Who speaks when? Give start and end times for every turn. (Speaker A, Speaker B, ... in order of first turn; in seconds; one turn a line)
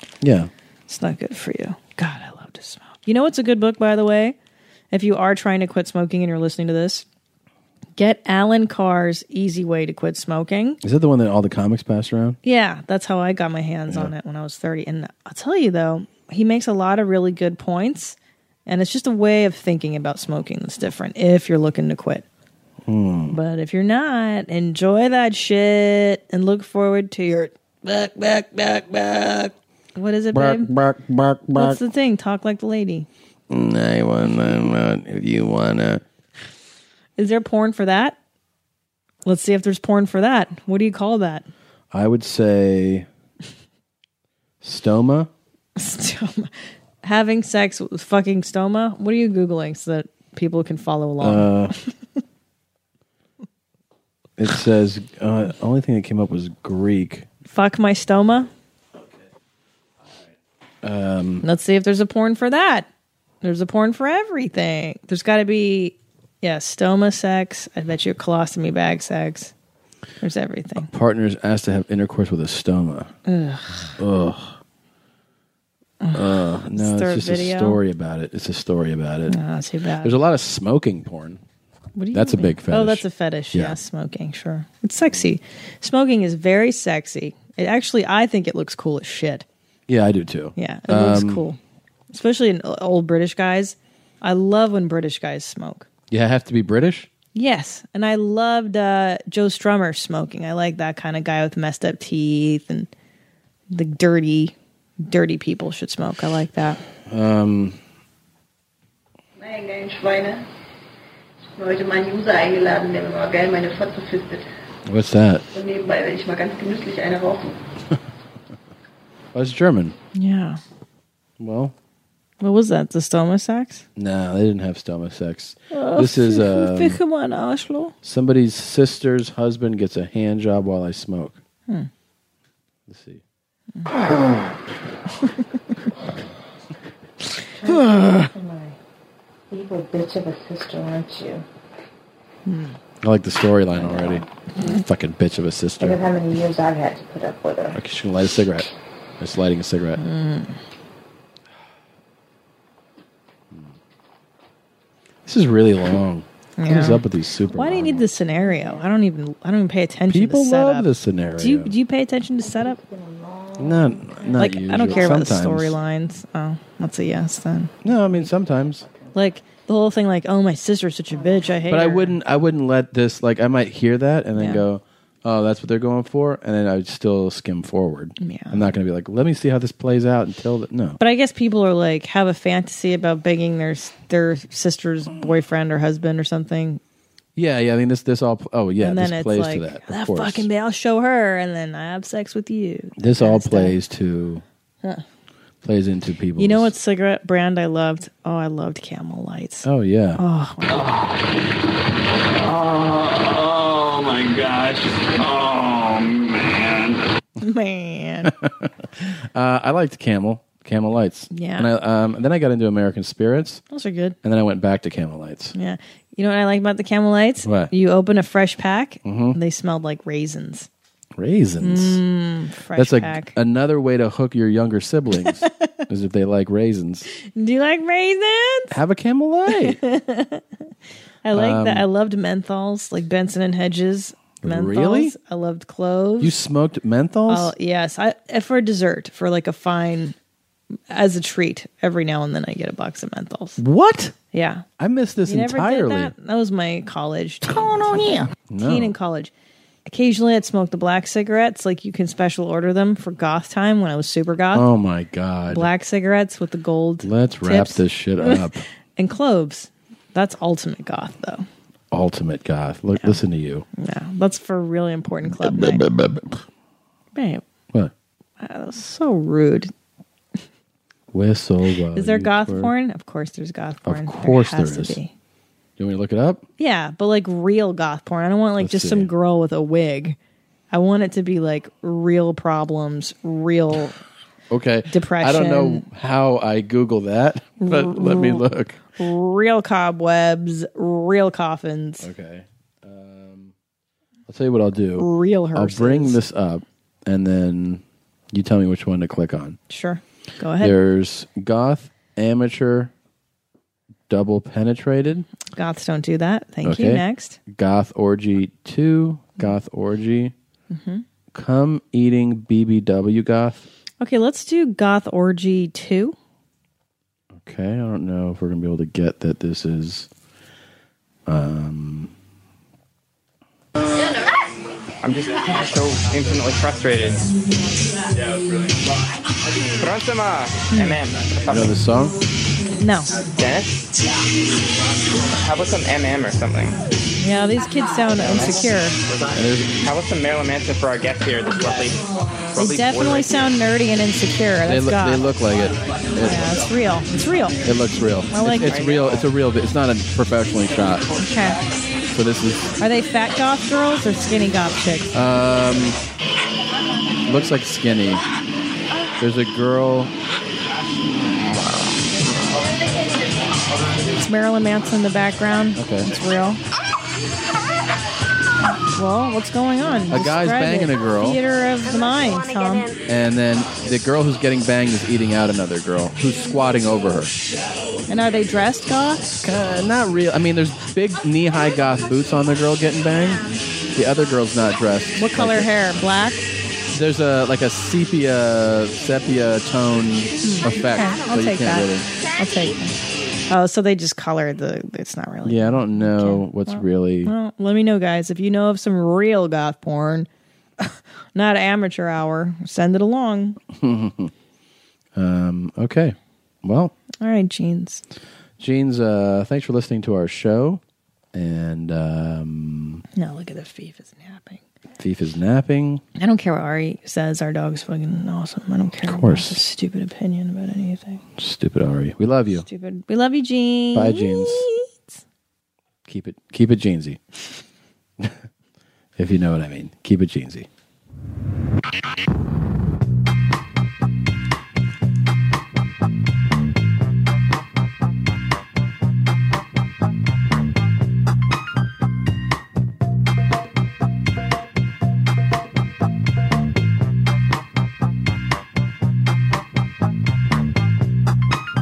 Speaker A: 0.2-0.5
Speaker B: 0.9-4.3
Speaker B: 4.9-7.0
Speaker B: 8.0-10.8
Speaker A: 10.8-12.4
Speaker B: 12.4-22.2
Speaker A: 22.8-23.4
Speaker B: 23.3-30.7
Speaker A: 30.3-31.8
Speaker B: 31.5-33.1
Speaker A: 33.5-36.0
Speaker B: 37.2-38.2
Speaker B: 39.2-41.5
Speaker A: 41.9-43.1
Speaker A: 44.6-45.3
Speaker B: 45.8-51.5
Speaker A: 51.2-51.7
Speaker A: 54.4-57.3
Speaker B: 57.5-58.5
Speaker A: 60.8-61.4
Speaker B: 61.4-62.9
Speaker B: 63.4-69.5
Speaker B: 70.2-70.9
Speaker A: 70.8-73.1
Speaker B: 73.2-73.9
Speaker A: 74.0-74.6
Speaker B: 76.0-77.8
Speaker A: 76.1-79.4
Speaker B: 79.3-80.1
Speaker A: 80.0-81.4
Speaker B: 82.0-89.4
Speaker A: 82.1-83.8
Speaker A: 89.9-91.4
Speaker B: 90.6-91.6
Speaker B: 92.1-95.9
Speaker A: 96.1-97.1
Speaker B: 97.3-102.9
Speaker B: 103.7-106.8
Speaker A: 107.0-107.8
Speaker C: 109.4-110.4
Speaker C: 111.6-114.4
Speaker A: 114.8-115.4
Speaker C: 115.5-117.5
Speaker A: 119.3-120.0
Speaker B: 120.1-120.6
Speaker A: 121.4-121.7
Speaker B: 122.4-123.8
Speaker A: 124.0-127.0
Speaker B: 125.7-127.9
Speaker A: 128.0-131.4
Speaker A: 132.9-133.2
Speaker D: 137.6-138.8
Speaker B: 137.9-138.3
Speaker D: 139.5-141.4
Speaker B: 142.4-142.8
Speaker A: 143.0-146.0
Speaker D: 145.8-147.8
Speaker A: 147.7-150.0
Speaker B: 150.0-150.6
Speaker A: 155.2-158.2
Speaker B: 156.6-160.9
Speaker D: 158.3-158.8
Speaker A: 160.1-161.7
Speaker B: 161.4-162.8
Speaker D: 162.4-164.5
Speaker A: 163.6-165.8
Speaker B: 164.4-167.7
Speaker A: 167.8-168.9
Speaker B: 169.1-172.2
Speaker A: 171.7-181.0
Speaker B: 174.3-174.6
Speaker B: 178.2-178.7
Speaker B: 181.0-186.8
Speaker A: 187.3-190.5
Speaker B: 188.8-193.8
Speaker A: 193.0-194.4
Speaker A: 195.6-196.7
Speaker B: 196.4-200.9
Speaker A: 199.6-200.2
Speaker E: 202.7-204.6
Speaker E: 205.3-206.9
Speaker B: 207.4-208.3
Speaker A: 208.2-213.6
Speaker B: 211.3-211.7
Speaker B: 213.7-214.2
Speaker A: 214.2-215.5
Speaker B: 215.5-220.7
Speaker A: 217.4-217.7
Speaker A: 219.0-219.4
Speaker A: 221.2-222.0
Speaker B: 221.6-223.3
Speaker A: 222.7-227.1
Speaker B: 225.2-225.7
Speaker B: 227.3-228.8
Speaker A: 228.7-229.8
Speaker B: 229.5-230.4
Speaker B: 231.2-236.3
Speaker A: 231.3-231.8
Speaker A: 234.4-235.1
Speaker A: 236.2-237.5
Speaker B: 237.3-240.2
Speaker B: 240.9-243.6
Speaker A: 243.6-244.1
Speaker B: 244.3-244.6
Speaker A: 244.8-246.1
Speaker B: 245.2-249.3
Speaker A: 247.5-248.9
Speaker B: 249.8-254.7
Speaker A: 254.5-255.7
Speaker B: 255.5-258.4
Speaker A: 257.0-258.6
Speaker B: 259.0-261.5
Speaker A: 261.9-263.6
Speaker B: 263.8-265.9
Speaker A: 265.2-266.4
Speaker B: 267.1-267.4
Speaker B: 268.4-269.7
Speaker A: 271.1-272.7
Speaker B: 271.9-275.1
Speaker A: 273.8-275.0
Speaker A: 275.8-276.4
Speaker B: 276.6-280.2
Speaker A: 278.6-279.1
Speaker B: 280.7-284.0
Speaker A: 284.5-288.8
Speaker B: 284.9-285.9
Speaker B: 287.6-288.4
Speaker B: 289.0-292.1
Speaker A: 292.0-293.5
Speaker A: 294.3-297.8
Speaker B: 295.0-296.2
Speaker A: 298.3-299.6
Speaker B: 299.7-300.8
Speaker A: 300.6-302.9
Speaker A: 304.1-305.2
Speaker B: 305.5-307.4
Speaker A: 306.6-310.3
Speaker B: 310.7-311.0
Speaker A: 311.3-313.7
Speaker B: 314.0-316.1
Speaker A: 317.4-320.1
Speaker A: 321.3-322.1
Speaker F: 325.0-327.3
Speaker F: 328.3-328.7
Speaker F: 329.8-331.8
Speaker B: 330.7-331.0
Speaker A: 331.4-332.1
Speaker B: 332.8-333.1
Speaker F: 333.2-333.9
Speaker F: 335.2-336.8
Speaker B: 337.2-339.0
Speaker F: 338.1-343.5
Speaker A: 339.3-339.7
Speaker B: 342.6-345.2
Speaker A: 344.6-346.4
Speaker B: 346.2-347.6
Speaker A: 347.6-351.1
Speaker B: 348.3-348.7
Speaker F: 348.4-349.3
Speaker B: 351.1-351.8
Speaker A: 352.1-352.6
Speaker B: 352.8-355.1
Speaker A: 355.1-356.0
Speaker A: 357.3-358.2
Speaker A: 359.2-360.1
Speaker B: 364.1-366.6
Speaker A: 365.8-366.1
Speaker B: 368.6-372.9
Speaker A: 370.1-371.4
Speaker A: 373.1-377.3
Speaker B: 378.1-379.4
Speaker A: 379.4-385.7
Speaker B: 385.2-386.5
Speaker A: 386.9-392.1
Speaker B: 390.4-392.9
Speaker B: 393.5-400.3
Speaker A: 395.4-397.3
Speaker B: 400.8-403.6
Speaker A: 403.7-404.3
Speaker A: 405.1-406.9
Speaker B: 407.2-408.0
Speaker A: 408.6-410.8
Speaker A: 411.3-413.0
Speaker B: 413.1-414.6
Speaker A: 415.0-416.0
Speaker B: 416.2-421.2
Speaker A: 419.0-419.6
Speaker A: 421.4-422.6
Speaker B: 422.5-425.0
Speaker A: 423.9-424.7
Speaker A: 426.1-427.2
Speaker A: 429.2-430.7